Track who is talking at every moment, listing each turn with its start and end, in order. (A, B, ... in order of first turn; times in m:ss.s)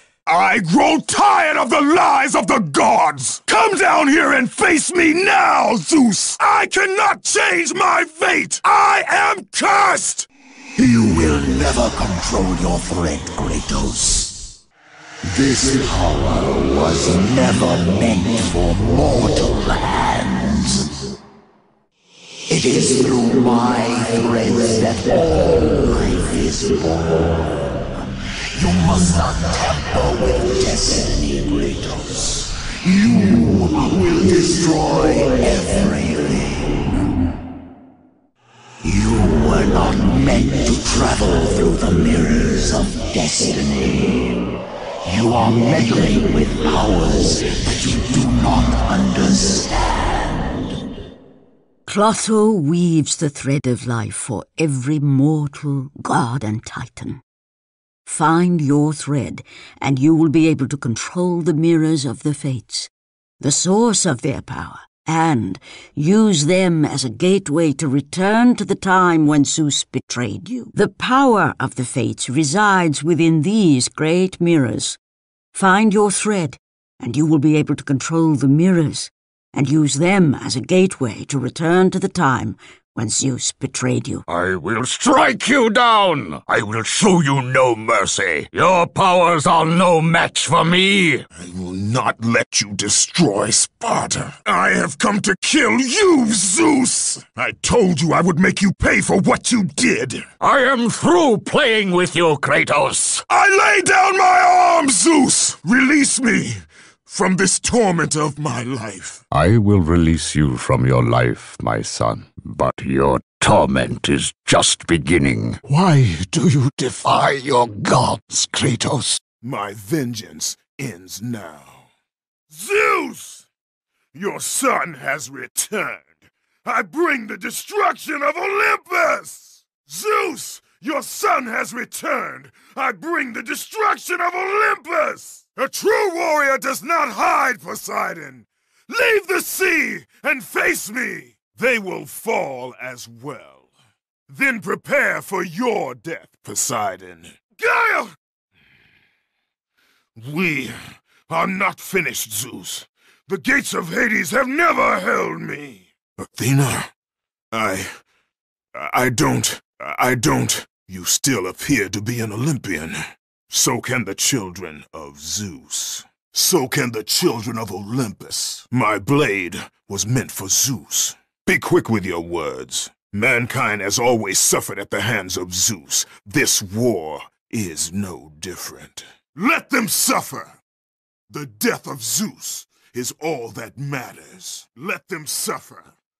0:00.2-0:10.3 A
0:10.8-0:14.4 B
0:15.2-0:21.0 B
0:22.5-0:27.6 B
0:28.5-0:37.1 B
0:38.8-0:44.4 B
0:45.0-0:50.6 B
0:51.8-0:57.2 C
0:58.0-1:15.0 C
1:15.5-1:24.2 C
1:24.3-1:31.2 D
1:31.3-1:40.3 A
1:40.4-1:43.2 D
1:43.3-1:49.2 A
1:49.3-1:56.0 D
1:55.7-1:56.8 B
1:56.8-1:59.2 D
1:59.4-2:01.9 A
2:02.5-2:03.4 A
2:04.1-2:23.7 A
2:24.3-2:28.1 A
2:30.2-2:36.9 A
2:37.5-2:38.0 A
2:38.7-3:00.6 A
3:01.3-3:05.9 A